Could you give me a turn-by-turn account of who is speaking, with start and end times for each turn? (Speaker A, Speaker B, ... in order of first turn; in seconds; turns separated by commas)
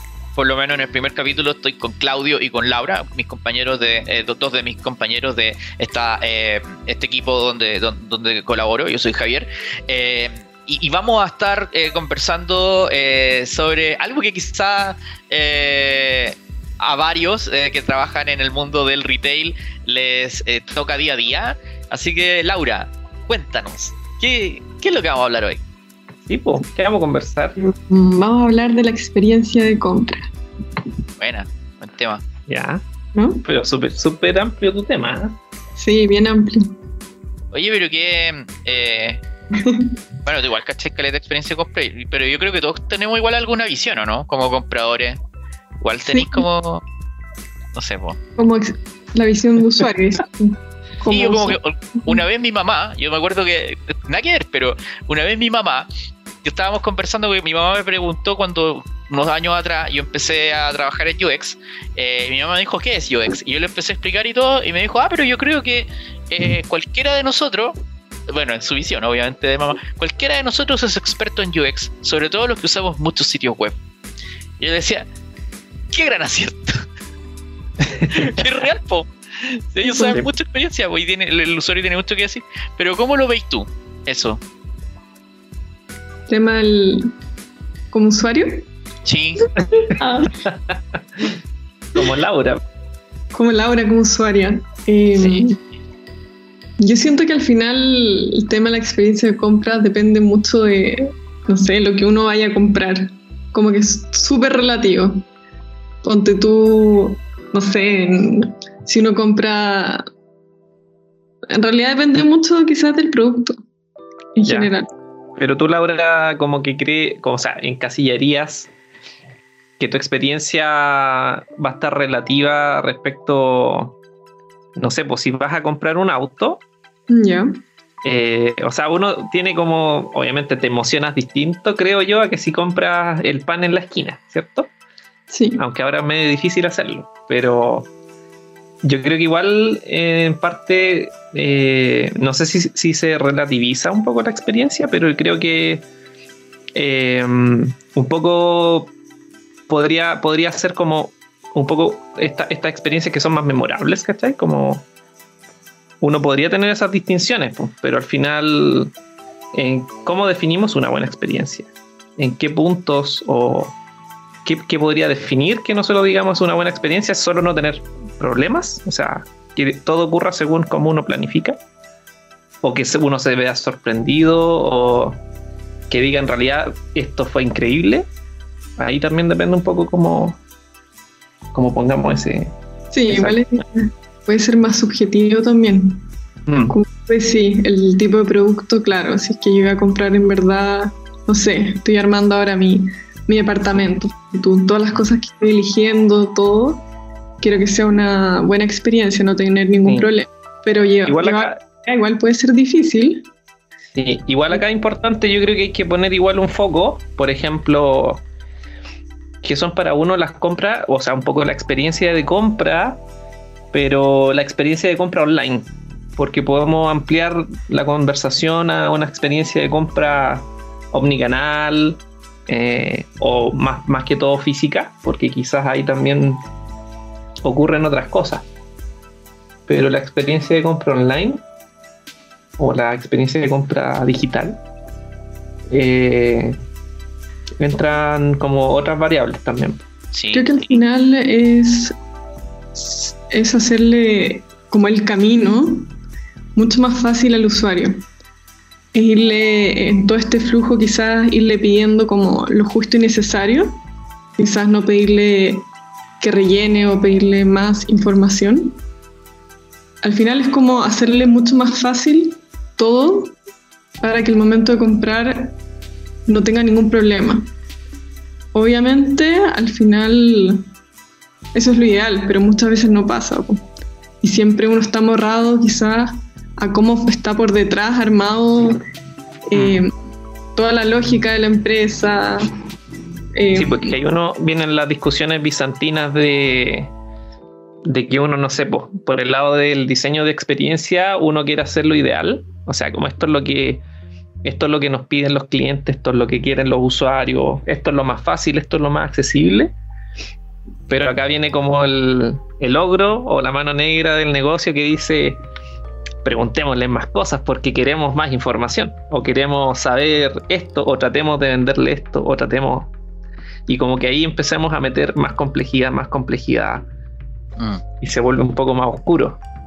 Speaker A: 0.3-25.6, Speaker B: 26.2-27.6, Speaker C: 27.6-30.3, Speaker A: 31.2-32.2, Speaker B: 32.5-32.8, Speaker C: 33.1-33.4, Speaker B: 33.4-35.4, Speaker C: 35.8-36.7, Speaker A: 37.5-39.2, Speaker C: 39.6-39.9, Speaker A: 40.2-45.2, Speaker A: 45.8-46.8, Speaker C: 46.1-46.4, Speaker A: 47.7-48.2, Speaker C: 48.4-52.2, Speaker A: 51.1-55.9, Speaker A: 56.4-67.8, Speaker A: 68.3-73.8, Speaker A: 74.6-75.1, Speaker A: 75.9-76.8, Speaker B: 77.8-78.1, Speaker A: 78.1-84.4, Speaker C: 79.8-80.2, Speaker C: 86.3-87.1, Speaker C: 87.9-88.7, Speaker A: 89.0-89.5, Speaker C: 89.8-90.4, Speaker B: 90.4-91.4, Speaker B: 91.9-92.6, Speaker C: 93.3-95.5, Speaker A: 95.2-95.5, Speaker C: 96.8-105.2, Speaker C: 106.0-110.0, Speaker C: 111.5-113.6, Speaker C: 114.3-114.9, Speaker B: 114.4-114.7, Speaker B: 115.4-118.7, Speaker B: 119.8-124.0, Speaker B: 124.7-126.6, Speaker C: 127.1-127.6, Speaker B: 128.0-134.7, Speaker C: 135.3-135.6, Speaker B: 135.6-137.9, Speaker B: 138.8-145.8, Speaker B: 146.7-148.9, Speaker B: 149.7-154.9, Speaker B: 156.0-158.9, Speaker B: 159.5-163.8, Speaker B: 164.4-171.6, Speaker B: 172.6-175.2, Speaker B: 175.9-178.1, Speaker B: 178.8-180.4, Speaker B: 181.5-182.5, Speaker C: 182.9-186.1, Speaker B: 183.1-183.4, Speaker B: 186.5-186.8, Speaker C: 186.7-196.8, Speaker C: 197.4-203.3, Speaker B: 199.8-200.1, Speaker B: 201.0-201.6, Speaker B: 203.9-208.2, Speaker B: 209.4-213.0, Speaker B: 213.7-226.4, Speaker B: 227.4-228.5, Speaker B: 229.7-231.4, Speaker B: 232.6-234.6, Speaker B: 235.7-236.6, Speaker B: 237.6-239.8, Speaker A: 240.1-240.6, Speaker C: 240.3-241.9, Speaker C: 242.7-245.9, Speaker C: 246.6-248.0, Speaker C: 248.9-253.8, Speaker C: 254.4-255.7, Speaker C: 256.2-258.8, Speaker C: 260.0-263.4, Speaker C: 264.0-265.6, Speaker C: 266.3-267.5, Speaker C: 268.5-270.6, Speaker C: 271.5-273.6, Speaker C: 274.2-278.8, Speaker C: 279.5-279.9, Speaker B: 279.5-279.8, Speaker C: 280.6-282.5, Speaker C: 283.3-283.9, Speaker B: 283.5-286.9, Speaker B: 287.8-293.8, Speaker B: 294.4-299.7, Speaker B: 300.9-305.4, Speaker B: 306.2-312.9, Speaker B: 313.7-316.8, Speaker A: 317.6-317.8, Speaker B: 318.0-319.4